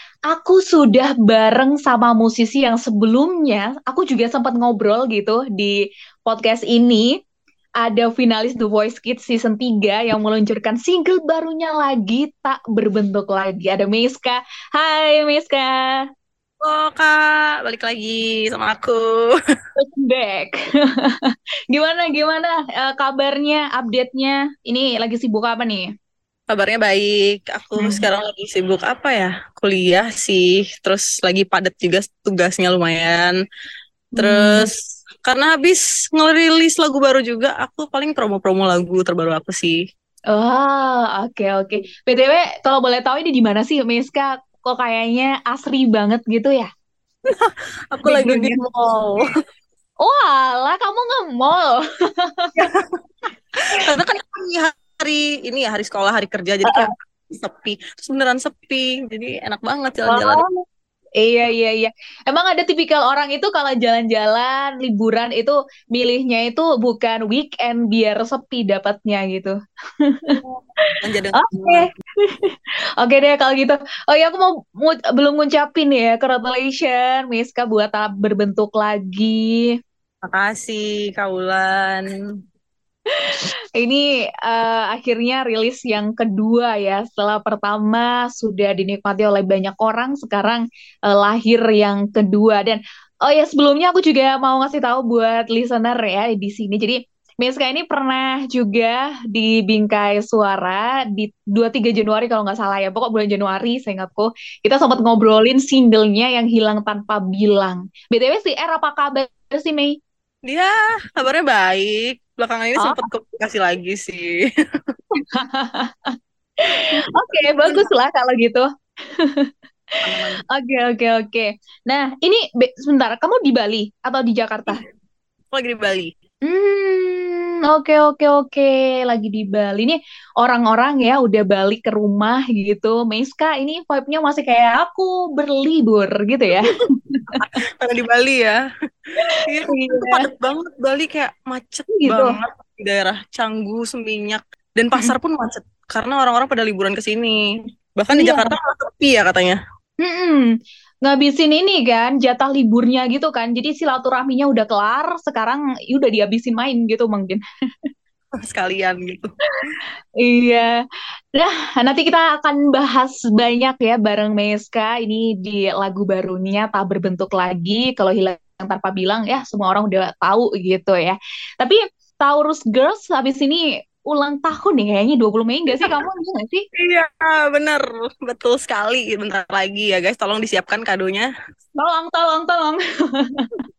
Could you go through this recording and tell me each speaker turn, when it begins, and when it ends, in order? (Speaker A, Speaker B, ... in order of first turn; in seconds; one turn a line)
Speaker A: 0.3-5.7
Speaker A: 6.2-7.1
Speaker A: 7.8-16.0
Speaker B: 16.6-19.3
Speaker A: 19.8-25.9
Speaker B: 26.5-33.3
Speaker A: 34.2-34.7
Speaker B: 34.2-34.7
Speaker B: 35.2-39.8
Speaker A: 40.3-46.7
Speaker B: 47.3-49.2
Speaker A: 48.0-48.6
Speaker A: 50.0-52.6
Speaker B: 53.8-60.4
Speaker A: 56.6-56.9
Speaker A: 60.1-60.5
Speaker A: 61.2-70.4
Speaker B: 70.4-71.9
Speaker A: 71.4-79.7
Speaker B: 80.2-82.1
Speaker A: 83.2-110.0
Speaker B: 110.4-114.4
Speaker A: 112.8-113.0
Speaker A: 115.2-116.1
Speaker A: 116.6-118.7
Speaker B: 116.9-117.9
Speaker A: 119.2-119.5
Speaker B: 120.0-120.4
Speaker A: 120.5-124.8
Speaker B: 125.5-126.1
Speaker A: 126.5-137.4
Speaker B: 137.4-138.6
Speaker A: 139.3-140.2
Speaker B: 139.4-147.4
Speaker A: 141.9-142.4
Speaker B: 148.0-149.6
Speaker A: 148.1-148.5
Speaker A: 150.0-150.5
Speaker A: 151.0-157.4
Speaker B: 158.4-159.3
Speaker A: 160.2-160.7
Speaker A: 161.3-176.6
Speaker B: 176.7-181.3
Speaker A: 181.8-183.5